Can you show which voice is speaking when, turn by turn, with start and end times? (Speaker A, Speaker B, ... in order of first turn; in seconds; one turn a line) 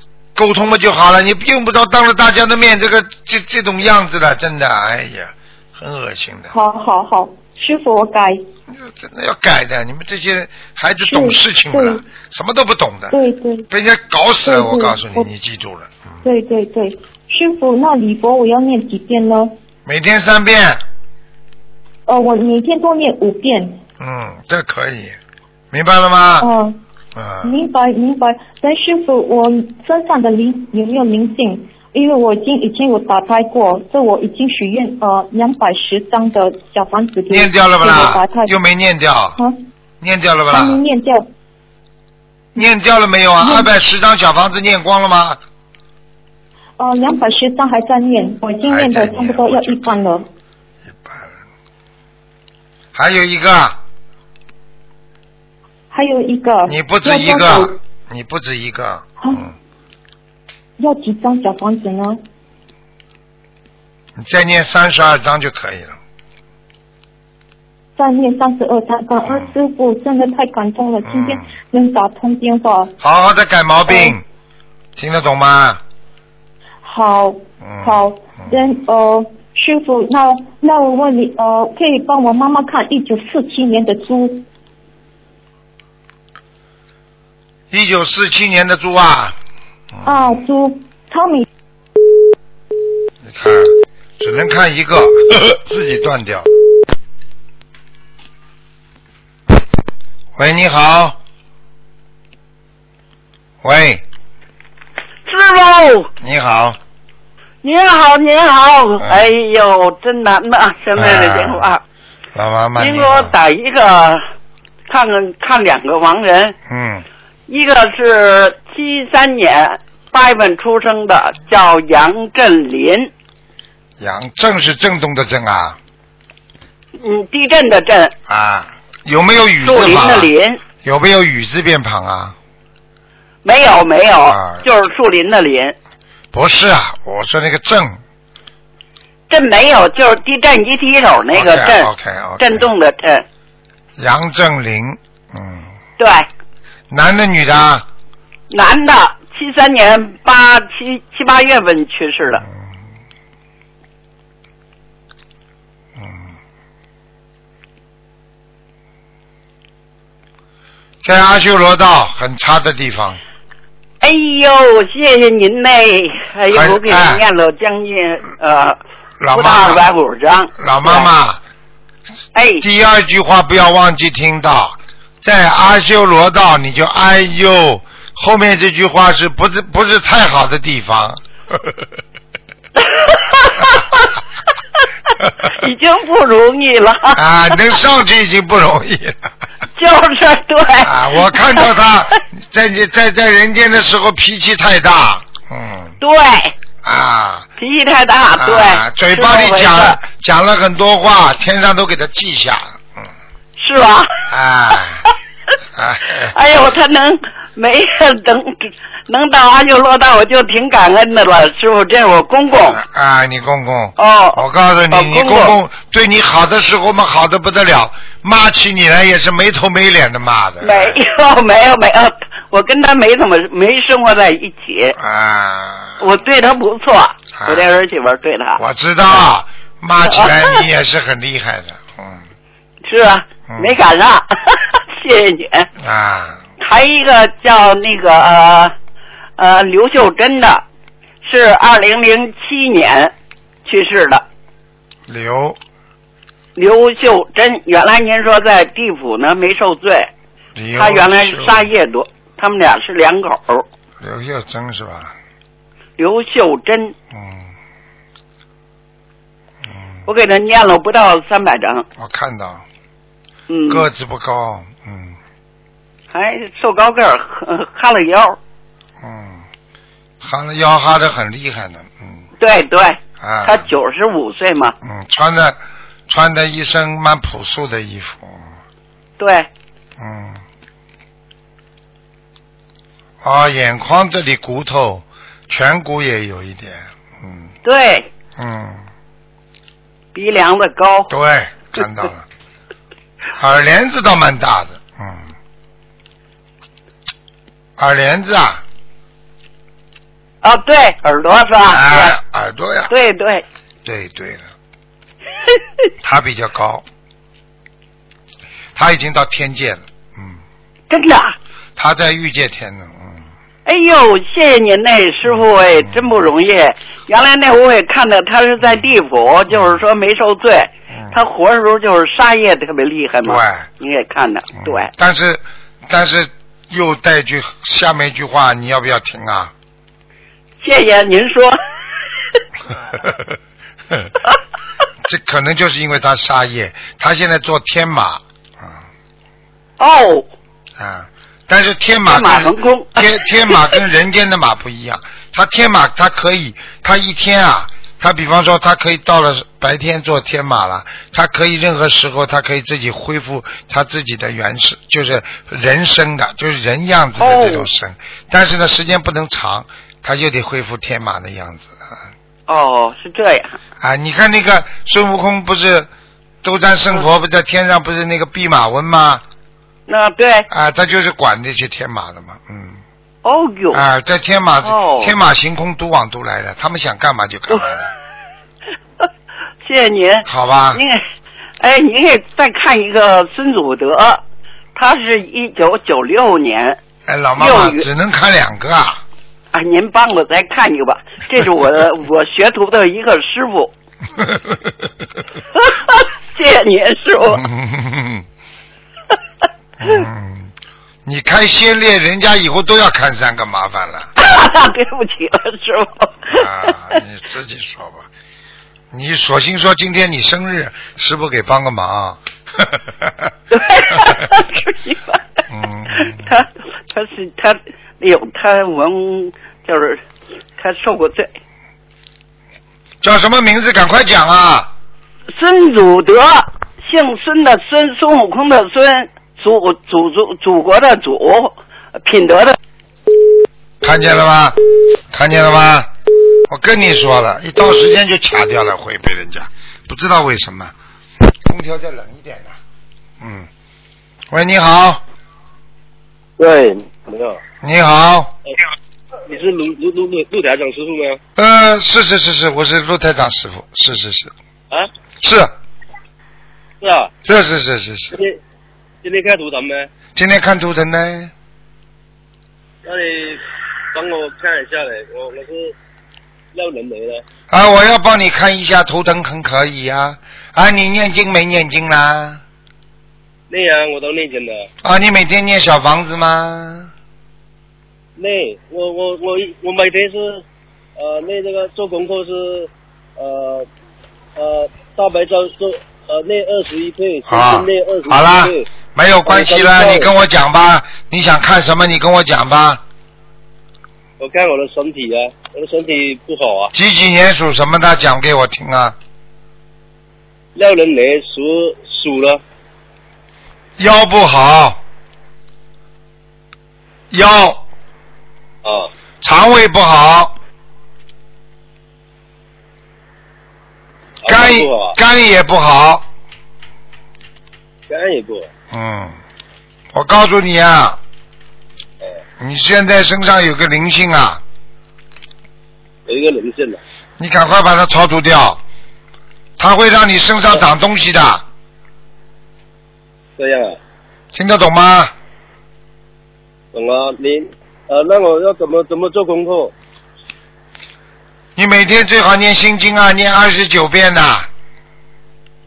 Speaker A: 0.3-6.5
Speaker B: 6.5-8.4
Speaker A: 8.7-13.2
Speaker B: 11.0-12.0
Speaker B: 13.1-13.7
Speaker A: 13.7-16.2
Speaker B: 14.4-15.3
Speaker B: 16.2-19.5
Speaker A: 19.9-20.8
Speaker B: 22.1-23.8
Speaker A: 24.0-25.2
Speaker A: 25.7-26.5
Speaker B: 26.4-26.8
Speaker A: 27.1-27.6
Speaker B: 27.4-38.5
Speaker A: 37.3-39.4
Speaker A: 40.0-40.8
Speaker B: 40.5-41.3
Speaker A: 42.5-45.4
Speaker B: 43.4-43.7
Speaker B: 46.8-50.3
Speaker A: 48.7-49.9
Speaker A: 50.9-51.3
Speaker A: 52.9-53.8
Speaker B: 55.9-57.8
Speaker A: 56.7-59.5
Speaker B: 59.2-59.5
Speaker B: 60.8-62.2
Speaker A: 64.2-66.0
Speaker B: 68.0-73.0
Speaker A: 71.1-71.4
Speaker A: 73.0-74.2
Speaker B: 73.9-74.2
Speaker A: 75.0-75.8
Speaker B: 76.8-84.5
Speaker A: 77.6-78.5
Speaker A: 87.7-89.4
Speaker B: 90.0-91.5
Speaker A: 93.2-96.5
Speaker A: 100.4-101.2
Speaker A: 103.6-104.0
Speaker C: 105.3-106.1
Speaker A: 106.2-106.8
Speaker C: 107.6-111.8
Speaker A: 111.0-111.7
Speaker A: 112.3-113.3
Speaker C: 112.8-114.2
Speaker C: 114.9-116.6
Speaker A: 116.7-117.1
Speaker C: 117.5-123.1
Speaker A: 124.0-125.8
Speaker C: 127.0-128.1
Speaker A: 128.3-130.3
Speaker C: 129.6-130.6
Speaker A: 130.8-132.4
Speaker C: 133.4-135.8
Speaker A: 134.3-134.7
Speaker A: 136.3-138.0
Speaker C: 139.3-143.2
Speaker A: 141.3-142.7
Speaker A: 144.0-145.7
Speaker C: 146.0-146.3
Speaker A: 146.9-147.8
Speaker C: 148.5-152.4
Speaker A: 161.0-163.2
Speaker C: 164.0-168.8
Speaker A: 166.5-167.2
Speaker A: 169.2-169.9
Speaker C: 169.3-171.1
Speaker A: 170.6-171.4
Speaker C: 172.3-172.6
Speaker A: 172.6-181.2
Speaker C: 182.8-184.1
Speaker C: 185.4-187.6
Speaker A: 187.1-189.3
Speaker C: 189.8-191.7
Speaker A: 190.8-195.9
Speaker C: 196.0-196.6
Speaker A: 196.8-197.5
Speaker C: 197.6-200.0
Speaker A: 198.4-203.1
Speaker C: 203.6-204.1
Speaker A: 204.3-205.1
Speaker A: 205.8-206.4
Speaker C: 206.3-212.8
Speaker A: 212.7-221.0
Speaker C: 214.0-215.6
Speaker C: 220.6-225.0
Speaker A: 225.0-226.0
Speaker C: 226.0-228.6
Speaker A: 227.4-227.7
Speaker A: 228.6-232.2
Speaker C: 230.1-230.6
Speaker C: 232.8-235.7
Speaker A: 233.5-233.8
Speaker A: 235.8-236.4
Speaker C: 236.6-238.7
Speaker C: 239.4-240.6
Speaker C: 241.2-243.1
Speaker C: 243.7-244.2
Speaker A: 245.1-245.6
Speaker C: 246.6-250.1
Speaker A: 250.6-251.6
Speaker C: 250.8-253.7
Speaker A: 254.0-255.1
Speaker C: 256.0-256.9
Speaker A: 257.1-257.5
Speaker C: 260.1-261.9
Speaker A: 262.0-262.6
Speaker C: 263.5-263.9
Speaker A: 263.7-265.2
Speaker C: 266.1-268.4
Speaker A: 269.0-269.4
Speaker A: 270.2-272.2
Speaker C: 272.4-274.8
Speaker A: 273.2-273.7
Speaker A: 274.8-275.6
Speaker A: 276.1-278.5
Speaker C: 279.2-279.5
Speaker A: 280.0-280.4
Speaker A: 283.2-287.5
Speaker C: 287.6-288.1
Speaker A: 288.4-288.8
Speaker C: 290.1-291.1
Speaker A: 291.1-292.2
Speaker A: 293.4-295.3
Speaker A: 297.8-298.6
Speaker C: 300.4-302.2
Speaker A: 301.7-302.9
Speaker C: 302.9-303.4
Speaker A: 303.9-304.5
Speaker A: 306.0-306.9
Speaker A: 308.8-310.4
Speaker C: 310.9-311.4
Speaker A: 311.8-313.2
Speaker C: 313.7-324.9
Speaker A: 315.3-316.0
Speaker A: 319.5-319.8
Speaker A: 323.2-323.7
Speaker A: 324.6-329.5
Speaker C: 330.6-331.6
Speaker A: 335.0-338.8
Speaker C: 339.8-340.3
Speaker A: 340.8-361.8
Speaker C: 342.1-343.6
Speaker C: 357.2-357.7
Speaker C: 362.5-363.6
Speaker A: 363.8-365.9
Speaker A: 366.4-369.2
Speaker C: 369.9-370.5
Speaker A: 370.5-372.8
Speaker C: 373.2-373.8
Speaker A: 373.7-377.9
Speaker C: 374.6-375.1
Speaker C: 379.6-381.0
Speaker A: 380.2-380.8
Speaker C: 381.6-384.2
Speaker C: 384.8-386.8
Speaker A: 387.1-389.0
Speaker C: 387.4-387.9
Speaker C: 389.5-393.7
Speaker C: 395.6-397.5
Speaker A: 397.3-398.2
Speaker A: 399.8-400.5
Speaker A: 401.1-404.1
Speaker C: 404.2-406.5
Speaker A: 406.3-408.1
Speaker A: 408.9-413.3
Speaker C: 413.5-415.2
Speaker A: 415.5-416.3
Speaker C: 416.0-420.0
Speaker C: 420.6-421.3
Speaker A: 423.0-424.7
Speaker C: 425.3-432.6
Speaker A: 433.8-434.6
Speaker A: 435.1-435.9
Speaker A: 436.5-440.7
Speaker A: 441.4-442.6
Speaker A: 443.2-443.5
Speaker A: 444.3-445.0
Speaker D: 446.4-447.4
Speaker A: 447.6-448.3
Speaker D: 449.3-451.2
Speaker A: 451.4-454.3
Speaker A: 455.2-455.5
Speaker D: 456.8-457.1
Speaker A: 457.2-458.2
Speaker D: 458.1-458.4
Speaker D: 459.0-459.9
Speaker A: 460.1-461.3
Speaker D: 462.8-463.4
Speaker D: 463.9-465.8
Speaker D: 466.5-467.2
Speaker A: 467.5-472.4
Speaker D: 473.5-474.7
Speaker A: 474.8-476.9
Speaker D: 478.2-480.4
Speaker D: 481.0-483.7
Speaker D: 484.4-488.7
Speaker A: 487.3-492.8
Speaker D: 489.3-490.1
Speaker D: 494.2-496.7
Speaker A: 496.7-499.0
Speaker D: 500.6-502.4
Speaker A: 503.8-504.8
Speaker A: 507.1-507.6
Speaker D: 508.6-508.9
Speaker A: 509.2-510.3
Speaker D: 514.2-515.0
Speaker A: 514.3-516.0
Speaker D: 517.9-518.5
Speaker A: 518.7-519.2
Speaker A: 519.9-521.0
Speaker A: 522.4-524.4
Speaker D: 526.1-526.8
Speaker A: 527.2-528.6
Speaker A: 529.6-531.5
Speaker D: 533.4-533.8
Speaker A: 534.3-535.1
Speaker D: 536.7-539.7
Speaker A: 541.6-544.5